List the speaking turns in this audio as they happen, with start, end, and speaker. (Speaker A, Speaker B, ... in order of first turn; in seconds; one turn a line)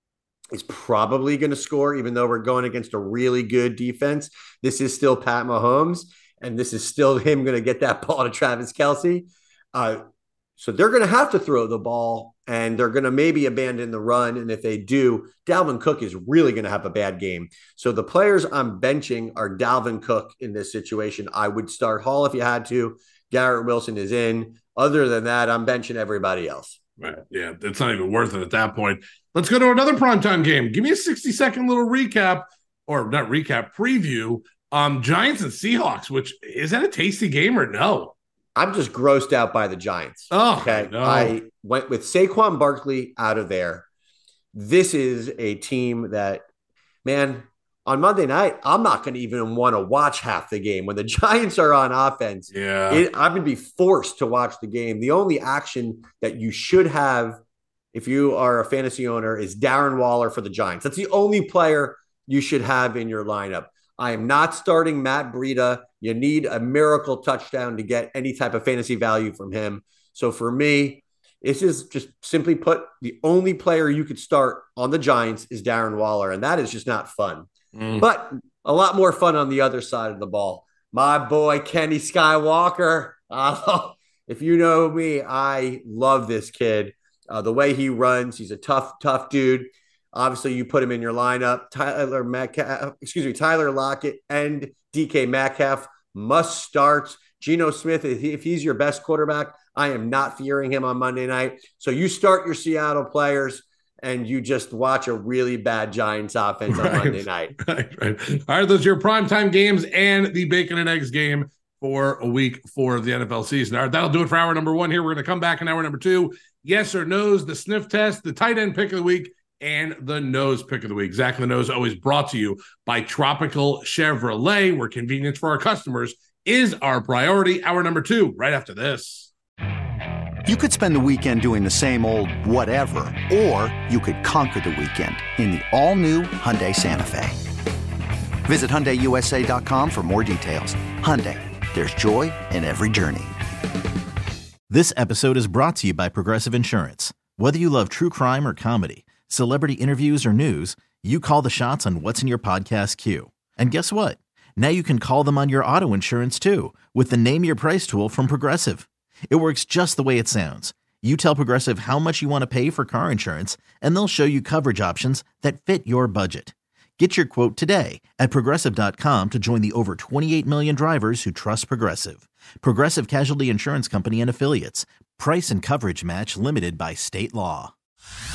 Speaker A: 0.5-10.0
Speaker A: 10.6-26.8
Speaker B: 27.0-38.1
Speaker A: 38.5-43.9
Speaker B: 40.3-41.4
Speaker A: 44.5-46.4
Speaker A: 47.0-57.4
Speaker B: 52.5-53.0
Speaker A: 57.9-107.5
Speaker B: 77.7-78.0
Speaker B: 106.7-129.3
Speaker C: 130.4-137.4
Speaker C: 138.4-143.3
Speaker D: 144.7-177.7